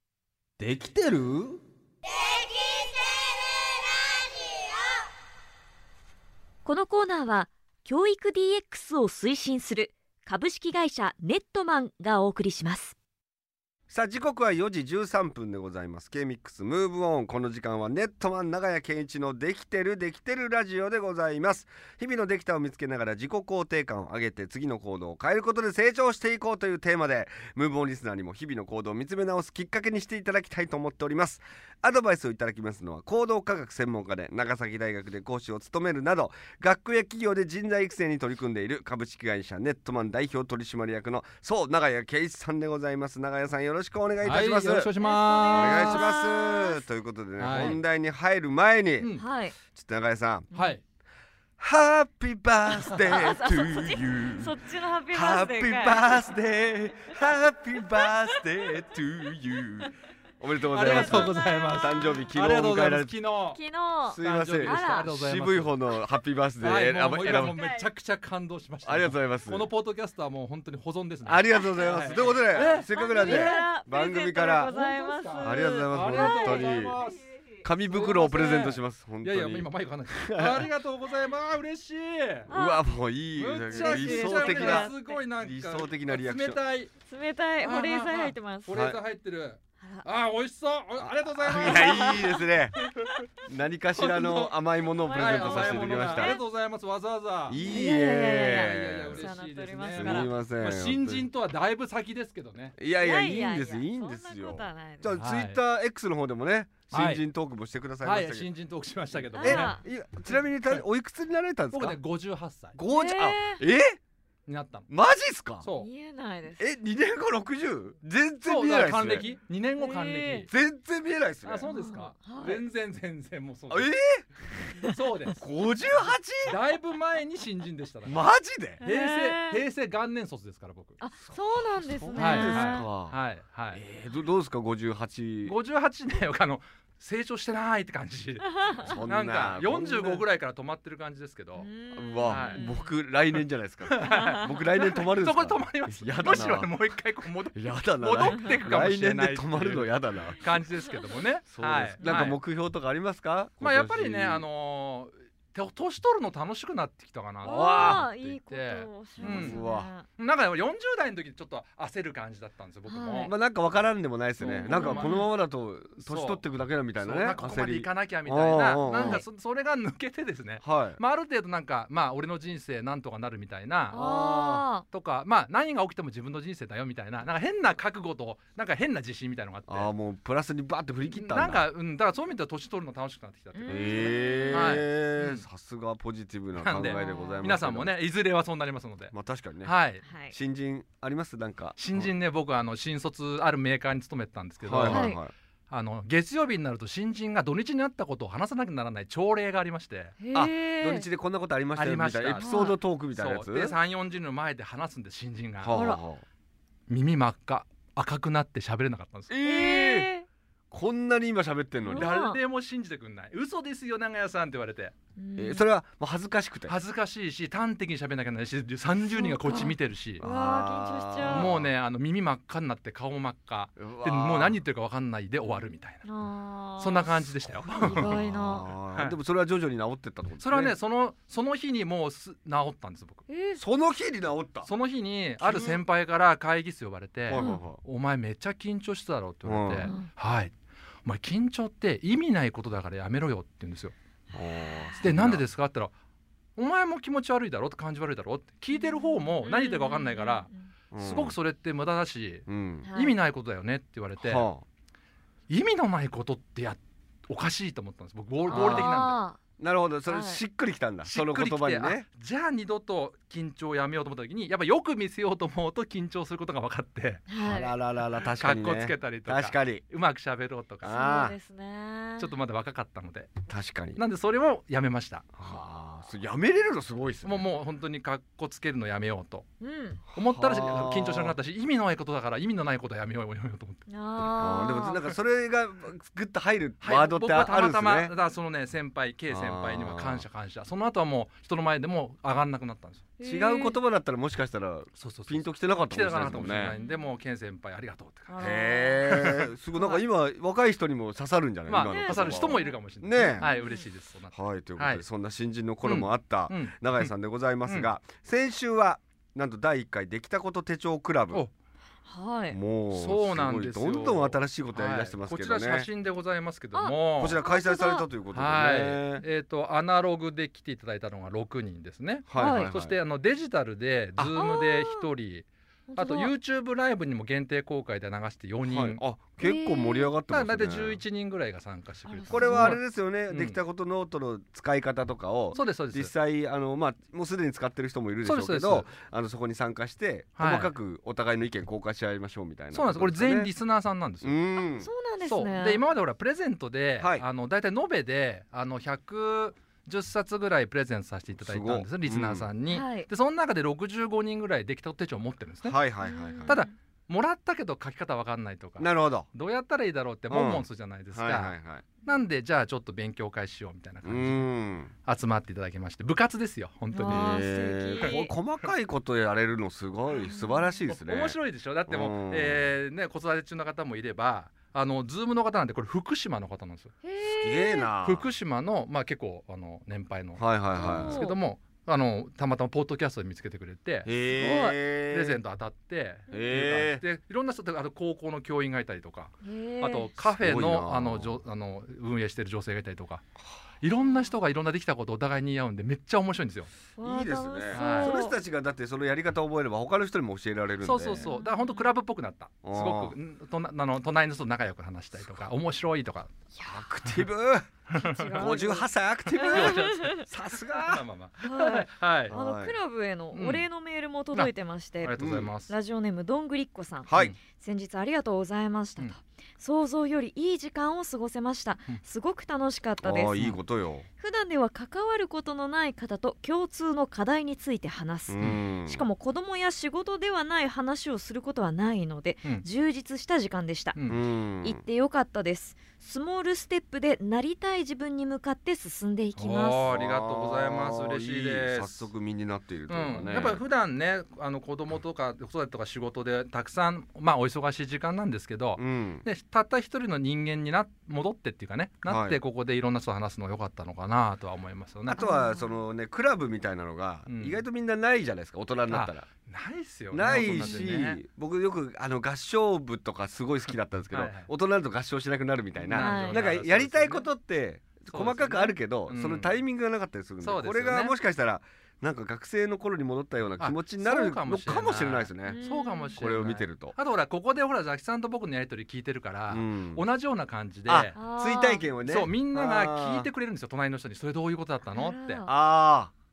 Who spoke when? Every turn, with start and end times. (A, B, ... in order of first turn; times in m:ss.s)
0:00.6-0:01.6 A
0:06.6-0:13.0 B
0:13.9-0:44.9 A
0:44.2-0:46.1 C
0:45.0-0:46.8 B
0:45.5-0:49.1 A
0:47.4-0:47.8 C
0:49.0-0:49.2 C
0:49.2-0:49.6 B
0:49.6-0:50.5 A
0:50.5-0:50.8 B
0:50.5-0:50.8 C
0:51.6-0:54.6 A
0:53.1-0:56.2 B
0:55.1-1:03.2 A
1:00.7-1:03.6 C
1:00.8-1:02.2 B
1:03.5-1:05.1 B
1:04.1-1:07.6 A
1:04.2-1:05.7 C
1:06.6-1:13.7 C
1:07.5-1:07.8 B
1:08.8-1:09.7 A
1:11.2-1:14.7 A
1:11.8-1:16.8 B
1:14.6-1:22.5 C
1:15.4-1:17.0 A
1:17.6-1:20.7 A
1:22.5-1:22.8 B
1:22.5-1:26.6 A
1:23.4-1:26.9 C
1:23.7-1:25.2 B
1:27.1-1:28.7 B
1:27.6-1:33.1 C
1:28.7-1:29.0 A
1:31.0-1:32.7 A
1:31.6-1:32.2 B
1:33.4-1:36.3 A
1:34.0-1:34.6 C
1:35.0-1:36.4 B
1:35.1-1:37.6 C
1:37.5-1:39.3 A
1:37.6-1:40.3 B
1:38.5-1:42.8 C
1:39.9-1:41.3 A
1:42.8-1:48.5 A
1:43.0-1:45.2 B
1:45.2-1:45.6 C
1:46.9-1:47.2 C
1:48.0-1:50.8 C
1:49.3-1:52.0 A
1:49.3-1:49.8 B
1:51.7-1:52.8 C
1:52.8-1:54.0 A
1:52.9-1:53.6 B
1:54.5-1:54.9 C
1:54.9-1:55.7 A
1:55.6-1:55.9 C
1:55.8-1:56.7 B
1:56.6-1:59.3 A
1:58.4-2:00.5 C
1:59.8-2:00.5 B
2:00.5-2:01.7 A
2:01.4-2:03.9 C
2:01.7-2:02.6 B
2:03.7-2:04.3 A
2:04.8-2:05.5 C
2:05.4-2:06.6 A
2:06.4-2:08.2 C
2:08.0-2:08.8 A
2:08.8-2:09.6 B
2:08.8-2:11.0 C
2:11.0-2:12.9 B
2:11.2-2:13.2 A
2:12.2-2:13.8 C
2:13.7-2:15.6 A
2:15.5-2:21.7 C
2:18.5-2:19.0 B
2:18.8-2:20.3 A
2:21.6-2:22.9 B
2:21.9-2:26.7 A
2:22.3-2:22.7 C
2:23.9-2:32.4 C
2:24.0-2:24.4 B
2:27.5-2:30.5 A
2:31.5-2:34.4 A
2:33.6-2:39.6 C
2:37.4-2:40.1 B
2:37.4-2:38.1 A
2:39.2-2:39.9 A
2:40.2-2:43.3 C
2:42.9-2:43.3 B
2:43.2-2:49.2 A
2:44.4-2:45.3 C
2:44.7-2:45.3 B
2:46.0-2:46.4 C
2:47.0-2:54.0 C
2:48.8-2:49.2 B
2:50.6-2:51.0 A
2:53.9-2:54.9 B
2:53.9-2:54.7 A
2:54.9-2:59.9 C
2:59.7-3:01.6 A
3:01.1-3:05.4 C
3:03.5-3:04.8 B
3:03.7-3:07.9 A
3:06.6-3:10.0 C
3:06.9-3:07.4 B
3:09.1-3:09.7 A
3:10.0-3:10.4 B
3:10.3-3:12.1 A
3:11.8-3:15.2 C
3:14.6-3:15.3 A
3:14.9-3:15.2 B
3:15.7-3:20.2 C
3:20.2-3:21.1 B
3:20.3-3:23.8 A
3:21.8-3:25.8 C
3:22.4-3:22.8 B
3:25.6-3:26.2 A
3:25.7-3:26.0 B
3:26.9-3:29.3 C
3:29.3-3:30.1 A
3:29.4-3:30.3 B
3:30.7-3:32.2 A
3:31.8-3:32.4 B
3:32.0-3:34.9 C
3:35.2-3:35.6 B
3:35.4-3:36.8 A
3:36.7-3:40.2 C
3:39.0-3:41.6 B
3:40.2-3:41.7 A
3:41.3-3:46.0 C
3:43.8-3:44.6 A
3:46.0-3:48.7 B
3:46.8-3:49.2 C
3:47.5-3:50.8 A
3:50.4-3:53.3 C
3:53.3-3:53.6 B
3:53.6-3:54.7 A
3:54.6-4:00.5 C
3:55.4-3:55.8 A
3:57.3-3:57.8 A
3:57.4-3:57.6 B
3:59.4-4:00.0 A
3:59.8-4:00.1 B
4:01.0-4:03.9 C
4:04.3-4:05.4 A
4:04.5-4:05.0 B
4:05.0-4:05.9 C
4:06.6-4:14.5 C
4:08.7-4:10.7 B
4:10.9-4:11.4 A
4:12.5-4:12.9 A
4:12.8-4:13.2 B
4:14.2-4:14.6 A
4:15.5-4:19.2 C
4:18.5-4:19.4 B
4:18.5-4:19.0 A
4:19.6-4:22.1 A
4:20.1-4:20.4 B
4:21.1-4:27.4 C
4:27.3-4:27.8 B
4:27.4-4:29.8 A
4:28.4-4:31.0 C
4:30.8-4:31.4 A
4:30.8-4:32.3 B
4:32.2-4:33.3 C
4:33.5-4:34.0 A
4:34.0-4:35.3 C
4:35.4-4:37.5 A
4:37.2-4:39.5 C
4:39.6-4:40.0 B
4:40.1-4:41.4 A
4:40.2-4:44.3 C
4:43.9-4:45.0 B
4:44.4-4:48.1 A
4:46.8-4:53.1 C
4:49.3-4:50.3 A
4:53.2-4:53.8 B
4:53.2-4:56.8 A
4:55.0-5:00.0 C
4:56.7-4:57.1 B
4:58.3-4:59.1 B
4:58.4-5:03.5 A
5:01.7-5:05.0 C
5:01.8-5:02.8 B
5:03.4-5:03.9 B
5:04.3-5:11.4 A
5:05.8-5:07.1 C
5:07.6-5:07.9 C
5:12.0-5:12.6 B
5:12.5-5:15.9 A
5:12.9-5:17.4 C
5:16.7-5:18.1 B
5:17.2-5:19.2 A
5:18.3-5:29.0 C
5:22.3-5:23.0 A
5:22.4-5:22.7 B
5:24.3-5:25.1 B
5:25.9-5:26.3 B
5:28.6-5:31.0 A
5:29.4-5:30.1 B
5:30.3-5:33.6 C
5:32.0-5:32.8 B
5:32.3-5:43.5 A
5:35.5-5:36.1 C
5:38.2-5:38.9 C
5:40.4-5:40.7 C
5:42.7-5:44.4 C
5:44.2-5:44.9 A
5:44.8-5:45.8 B
5:45.2-5:55.8 C
5:47.0-5:47.2 A
5:51.4-5:52.5 A
5:52.7-5:53.1 B
5:55.6-5:56.6 A
5:56.0-5:56.7 B
5:56.5-6:04.5 C
5:58.8-5:59.3 A
6:00.3-6:01.9 A
6:04.0-6:04.9 A
6:05.0-6:07.3 C
6:06.9-6:08.3 B
6:07.1-6:12.7 A
6:08.0-6:08.7 C
6:10.2-6:10.8 B
6:10.9-6:17.0 C
6:17.0-6:17.9 B
6:17.2-6:18.3 A
6:18.0-6:33.2 C
6:20.4-6:21.2 A
6:20.8-6:21.4 B
6:24.1-6:25.4 A
6:24.3-6:24.8 B
6:26.3-6:27.0 A
6:29.4-6:30.1 B
6:30.2-6:31.4 A
6:33.8-6:36.7 C
6:37.0-6:38.4 B
6:37.0-6:41.3 A
6:37.7-6:38.2 C
6:40.8-6:46.3 C
6:41.2-6:41.9 B
6:42.6-6:43.2 A
6:46.5-6:46.9 B
6:46.7-6:47.7 A
6:47.9-6:48.4 C
6:47.9-6:48.9 B
6:48.3-6:51.0 A
6:49.4-6:52.4 C
6:49.4-6:50.2 B
6:51.4-7:03.5 B
6:52.3-6:52.8 A
6:53.3-6:53.7 C
6:54.3-6:55.7 C
6:55.2-6:55.5 A
6:57.1-6:57.4 A
7:03.0-7:04.1 A
7:04.2-7:14.0 B
7:08.3-7:09.1 A
7:14.0-7:14.2 C
7:14.1-7:14.8 A
7:14.6-7:20.0 B
7:19.4-7:22.1 C
7:19.9-7:23.6 A
7:22.9-7:35.2 C
7:28.8-7:29.3 A
7:32.0-7:32.4 A
7:35.1-7:39.3 A
7:35.2-7:35.8 B
7:37.3-7:37.6 C
7:38.9-7:41.2 C
7:40.1-7:55.6 A
7:44.1-7:44.5 C
7:45.8-7:47.3 C
7:45.9-7:46.4 B
7:48.1-7:49.6 C
7:50.4-7:51.2 C
7:53.6-8:01.2 C
7:55.5-7:56.2 B
7:56.2-7:57.0 A
7:59.5-8:00.1 A
8:00.9-8:03.3 A
8:01.2-8:01.8 B
8:02.1-8:05.4 C
8:04.9-8:05.5 B
8:05.4-8:06.1 A